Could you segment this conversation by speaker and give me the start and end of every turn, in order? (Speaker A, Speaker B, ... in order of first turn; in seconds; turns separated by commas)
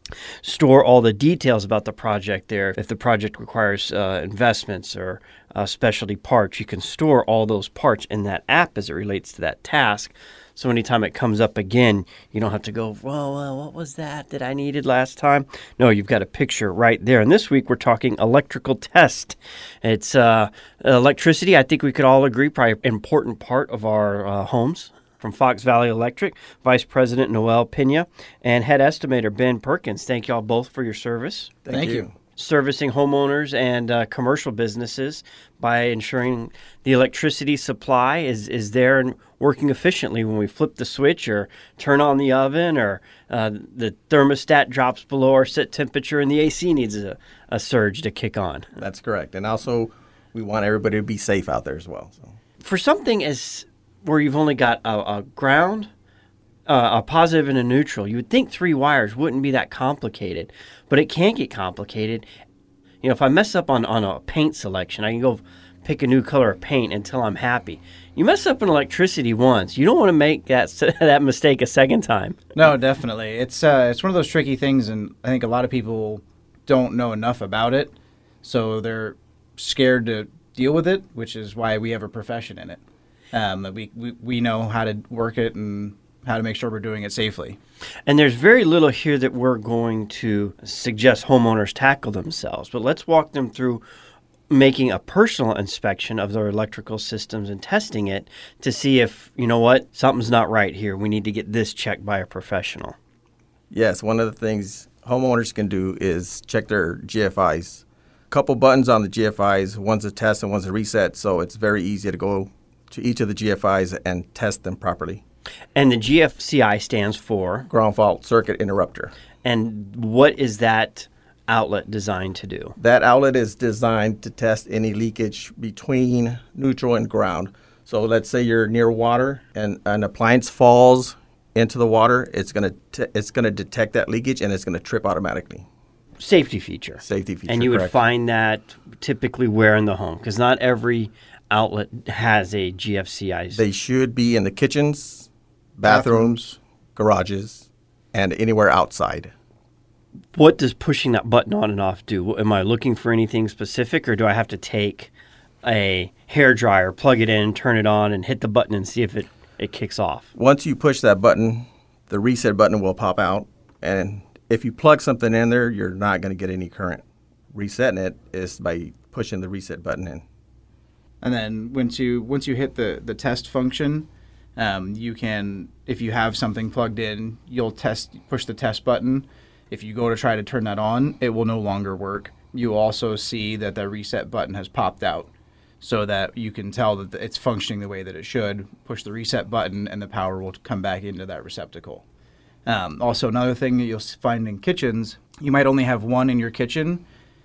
Speaker A: 0.4-31.6, Speaker B: 31.6-32.2, Speaker C: 31.7-32.1, Speaker A: 32.4-48.8, Speaker B: 48.8-52.3, Speaker A: 52.6-55.9, Speaker A: 56.7-62.3, Speaker A: 63.0-72.4, Speaker C: 72.5-82.8, Speaker C: 83.3-87.6, Speaker A: 88.1-93.8, Speaker A: 94.5-103.0, Speaker B: 103.7-115.2, Speaker A: 115.8-117.7, Speaker B: 117.7-119.1, Speaker A: 119.4-122.8, Speaker B: 122.8-135.7, Speaker A: 136.2-143.6, Speaker B: 137.0-137.9, Speaker B: 143.6-149.3, Speaker C: 145.8-146.6, Speaker A: 150.3-155.1, Speaker A: 155.6-160.3, Speaker B: 160.3-170.2, Speaker C: 171.2-185.3, Speaker C: 185.8-192.1, Speaker C: 192.7-197.1